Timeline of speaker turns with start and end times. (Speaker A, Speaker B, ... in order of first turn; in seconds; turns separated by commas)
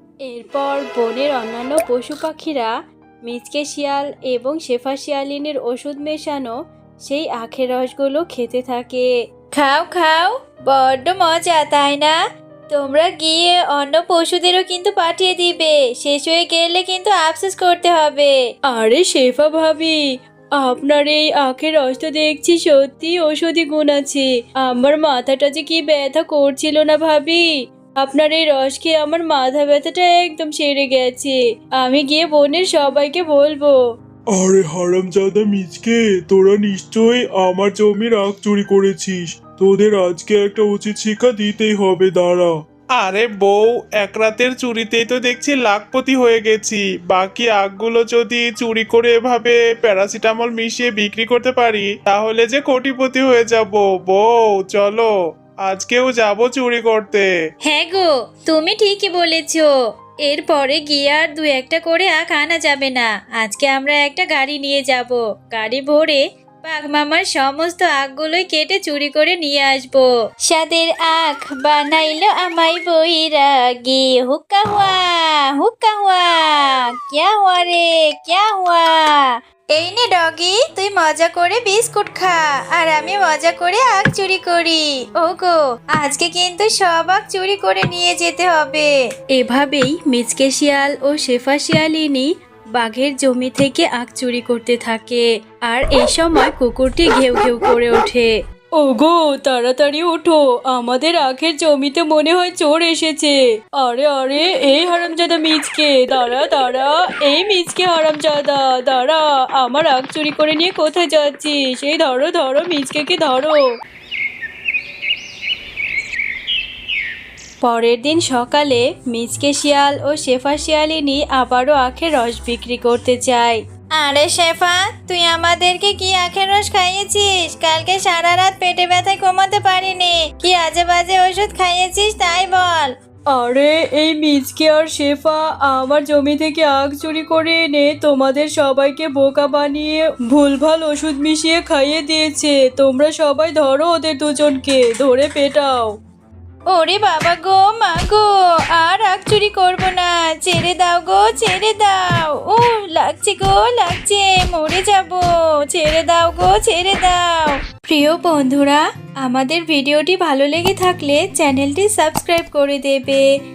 Speaker A: 0.3-2.7, Speaker A: 3.2-6.6, Speaker A: 7.1-9.1, Speaker B: 9.5-12.2, Speaker B: 12.7-18.4, Speaker A: 18.7-20.0, Speaker A: 20.6-27.4, Speaker A: 28.0-33.8, Speaker C: 34.5-35.5, Speaker D: 35.1-35.8, Speaker D: 36.6-36.9, Speaker D: 37.6-39.1, Speaker C: 38.0-38.2, Speaker D: 39.6-40.3, Speaker C: 40.0-41.0, Speaker C: 41.7-42.4, Speaker C: 43.0-55.1, Speaker C: 55.6-57.3, Speaker B: 57.7-59.7, Speaker B: 60.2-88.9, Speaker A: 89.4-113.6, Speaker A: 117.6-123.5, Speaker B: 124.0-132.9, Speaker A: 133.3-145.9, Speaker B: 146.7-163.3